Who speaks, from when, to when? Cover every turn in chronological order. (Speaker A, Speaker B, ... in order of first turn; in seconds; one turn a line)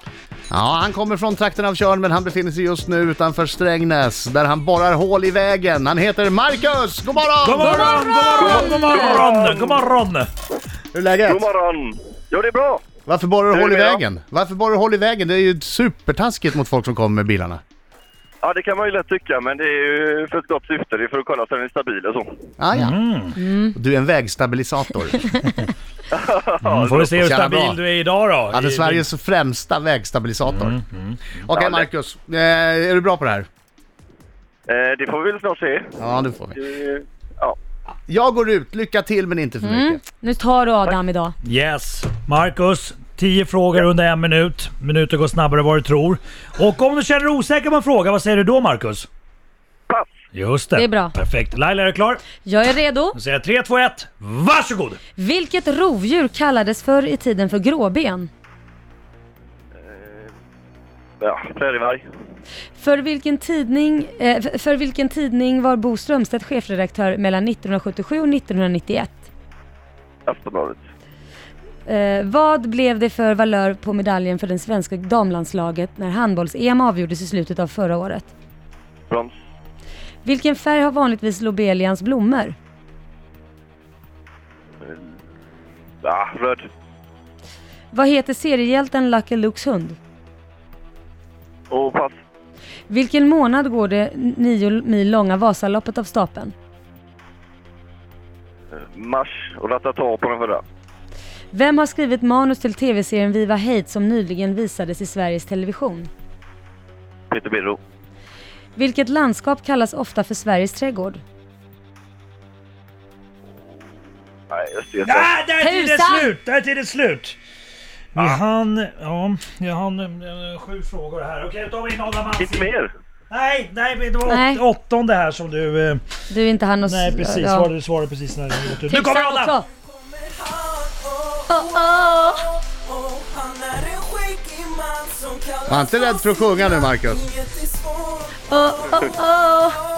Speaker A: 0.5-8.1
Speaker B: 7.4-10.3
Speaker C: 7.6-9.2
Speaker D: 8.4-9.8
Speaker A: 10.9-11.4
Speaker D: 11.3-12.9
Speaker A: 13.1-17.6
Speaker D: 13.5-14.0
Speaker D: 18.4-22.4
Speaker A: 22.6-25.4
Speaker B: 22.7-23.4
Speaker C: 23.4-23.8
Speaker D: 26.1-27.1
Speaker B: 26.6-29.1
Speaker A: 27.2-27.8
Speaker A: 28.5-30.8
Speaker B: 30.4-31.4
Speaker A: 31.4-33.5
Speaker D: 31.5-31.9
Speaker D: 34.7-36.0
Speaker A: 36.0-36.6
Speaker D: 36.6-37.6
Speaker A: 38.1-40.0
Speaker C: 39.6-41.4
Speaker B: 41.4-49.1
Speaker B: 50.3-52.3
Speaker C: 50.7-51.1
Speaker C: 52.4-53.2
Speaker B: 53.1-55.0
Speaker C: 55.2-58.3
Speaker D: 59.8-60.3
Speaker D: 61.2-62.0
Speaker C: 62.8-69.3
Speaker D: 70.3-70.8
Speaker C: 71.9-78.3
Speaker D: 79.1-79.3
Speaker C: 80.2-82.6
Speaker D: 86.0-86.7
Speaker C: 87.9-90.0
Speaker D: 91.7-92.2
Speaker C: 92.9-96.5
Speaker D: 98.8-100.6
Speaker C: 101.5-106.1
Speaker D: 107.3-107.8
Speaker C: 108.8-111.2
Speaker D: 114.5-115.3
Speaker B: 115.0-117.4
Speaker C: 115.6-116.3
Speaker B: 118.1-122.7
Speaker D: 122.4-122.9
Speaker B: 123.3-126.0
Speaker C: 124.2-124.6
Speaker C: 126.3-127.7
Speaker B: 126.9-129.6
Speaker C: 128.9-129.7
Speaker C: 131.5-132.5
Speaker E: 133.0-135.6
Speaker A: 135.7-137.3
Speaker E: 137.4-138.2
Speaker C: 138.5-139.8